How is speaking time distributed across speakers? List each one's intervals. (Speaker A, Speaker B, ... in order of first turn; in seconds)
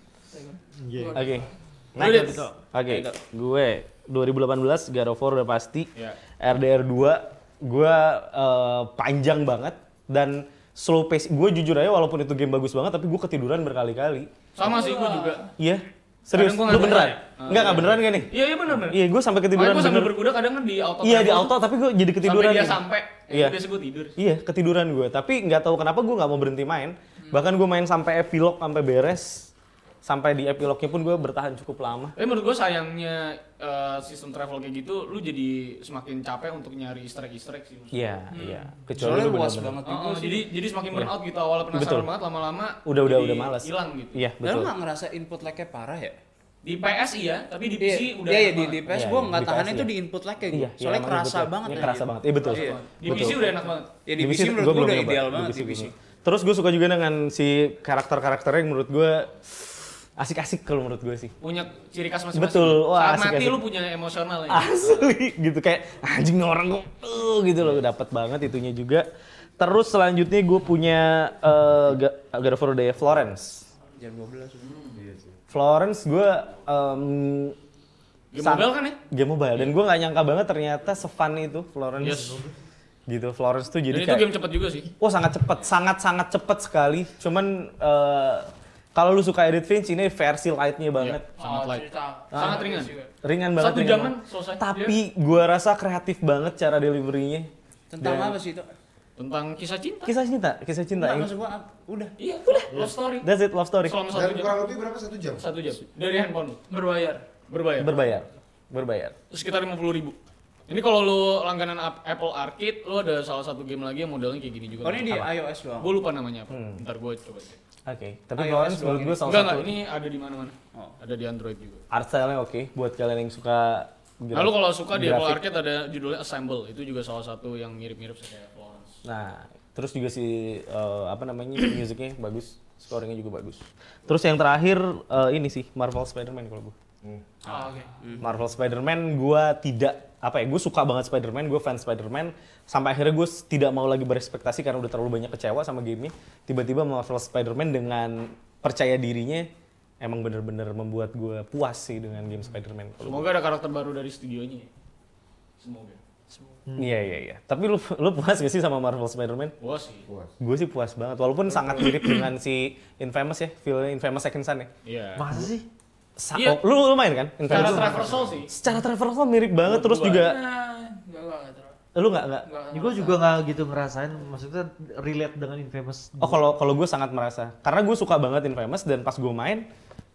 Speaker A: 0.3-1.5, 14.7-15.5, 38.3-38.7, 91.4-93.1, 106.7-107.2, 137.5-138.0, 156.3-156.6, 170.1-171.8, 172.4-173.2
Speaker B: 0.8-1.2, 2.0-2.5, 82.1-82.5, 156.7-157.0, 165.2-165.7, 172.7-176.4
Speaker C: 1.1-14.3, 15.6-20.2, 21.0-23.6, 24.2-29.5, 30.0-32.1, 37.9-39.8, 41.7-42.1, 42.9-44.7, 48.9-49.9, 50.5-53.4, 54.2-61.4, 62.3-63.7, 64.5-69.0, 69.6-73.7, 75.5-77.6, 78.4-82.4, 83.1-84.3, 85.0-91.2, 92.3-97.5, 98.0-98.4, 100.1-101.3, 102.5-104.0, 107.8-109.2, 116.5-116.8, 117.9-119.8, 121.9-125.4, 129.1-136.8, 138.2-149.5, 150.0-153.3, 156.8-159.6, 160.4-164.7, 166.2-170.4, 171.9-172.5, 176.2-179.7
Speaker D: 2.0-2.5, 14.6-15.5, 16.3-19.0, 19.5-21.6, 22.2-24.1, 32.2-37.9, 39.9-44.2, 46.6-48.8, 52.4-53.9, 61.4-65.1, 74.7-75.0, 78.3-79.0, 82.0-82.4, 83.9-84.9, 91.0-92.9, 93.6-94.9, 99.2-100.1, 102.2-103.3, 103.8-104.6, 105.4-106.6, 107.5-107.9, 109.3-110.2, 110.7-115.2, 115.8-117.6, 119.2-121.8, 124.3-129.0, 153.0-154.7, 155.6-156.0, 159.6-160.1, 161.6-162.2, 164.8-165.4, 166.3-166.6, 167.4-168.5, 169.7-170.3
Speaker E: 2.9-3.2, 39.0-40.5, 44.4-46.2, 47.8-53.4, 54.0-55.9, 74.0-74.8, 97.9-98.7, 101.0-102.2, 114.8-116.0, 118.4-119.2, 137.5-138.2
Speaker F: 75.0-75.4, 104.1-105.5, 160.1-160.3, 167.6-168.4